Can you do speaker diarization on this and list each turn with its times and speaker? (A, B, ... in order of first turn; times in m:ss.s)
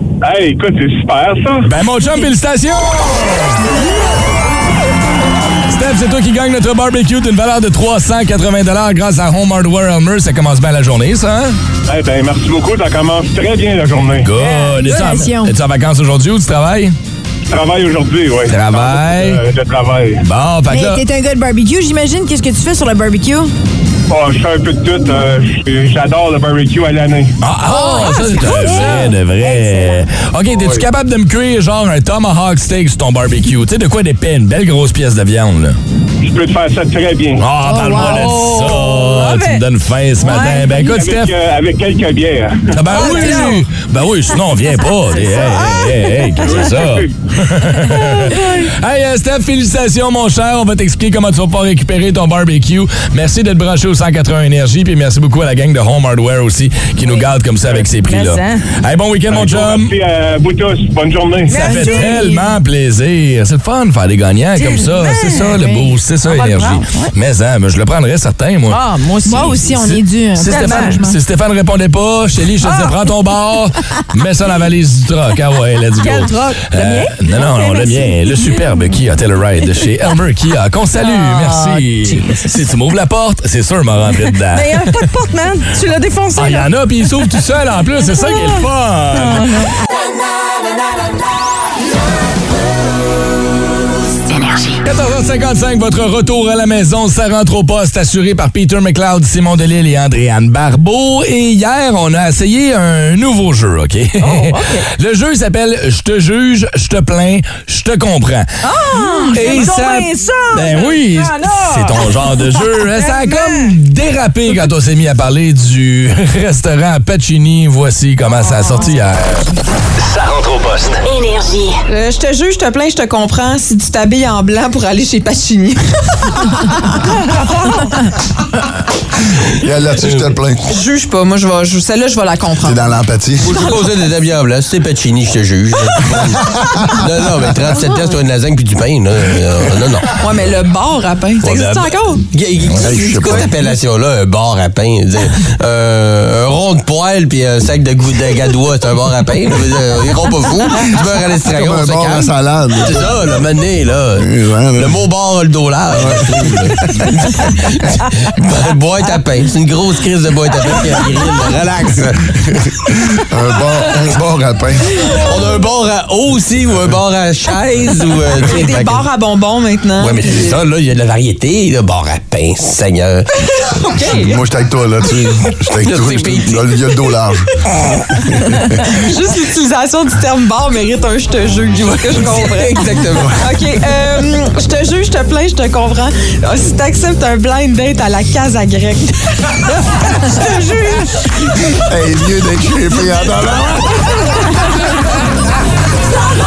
0:00.2-0:01.7 A
0:01.6-0:03.6 B
0:05.7-0:11.6 B
0:11.9-0:14.3 A
0:14.2-0:16.9 B
0:14.3-0:15.5 C
0:17.5-0:20.2 A
0:18.5-0:19.4 B
0:20.2-0:21.0 B
0:20.7-0:23.5 C
0:24.1-0:27.4 A
0:27.4-0:35.8 B
0:27.7-0:30.1 C
0:27.8-0:29.1 D
0:30.5-0:30.8 A
0:36.2-0:37.4 A
0:37.4-0:41.4 B
0:37.6-0:38.4 C
0:38.0-0:39.6 D
0:40.2-0:40.9 D
0:40.7-0:42.8 A
0:42.7-0:59.9 B
0:42.9-0:43.6 D
0:45.2-0:46.7 D
0:46.4-0:47.1 A
0:47.8-0:48.7 D
0:57.9-0:58.6 D
0:59.3-1:01.6 A
1:01.5-1:02.4 D
1:01.5-1:08.8 B
1:01.6-1:02.4 C
1:04.6-1:07.1 D
1:08.7-1:09.8 D
1:09.2-1:11.2 C
1:09.8-1:25.0 B
1:10.5-1:11.0 D
1:12.6-1:13.0 D
1:16.0-1:18.6 D
1:21.0-1:22.6 D
1:24.5-1:26.7 D
1:26.4-1:29.6 B
1:28.2-1:28.6 D
1:29.1-1:29.7 D
1:34.8-1:48.5 B
1:44.2-1:44.9 D
1:48.6-1:53.7 D
1:48.9-1:49.7 C
1:49.3-1:59.5 B
2:00.0-2:01.0 B
2:01.9-2:05.8 E
2:06.4-2:06.9 E
2:09.6-2:10.7 F
2:10.7-2:12.8 E
2:12.6-2:13.7 F
2:13.4-2:20.2 G
2:13.5-2:13.8 E
2:16.2-2:17.0 F
2:20.1-2:22.3 E
2:21.4-2:42.6 G
2:22.7-2:23.5 F
2:22.8-2:23.6 E
2:30.8-2:33.5 F
2:34.2-2:35.0 F
2:35.9-2:37.6 F
2:43.3-2:45.1 F
2:45.0-2:49.1 G
2:48.4-2:50.6 E
2:50.0-2:53.3 G
2:53.8-2:54.4 E
2:54.1-2:57.5 F
2:55.8-2:56.6 G
2:58.1-2:59.0 F
2:58.6-3:11.3 E
3:02.2-3:03.4 F
3:11.9-3:13.9 F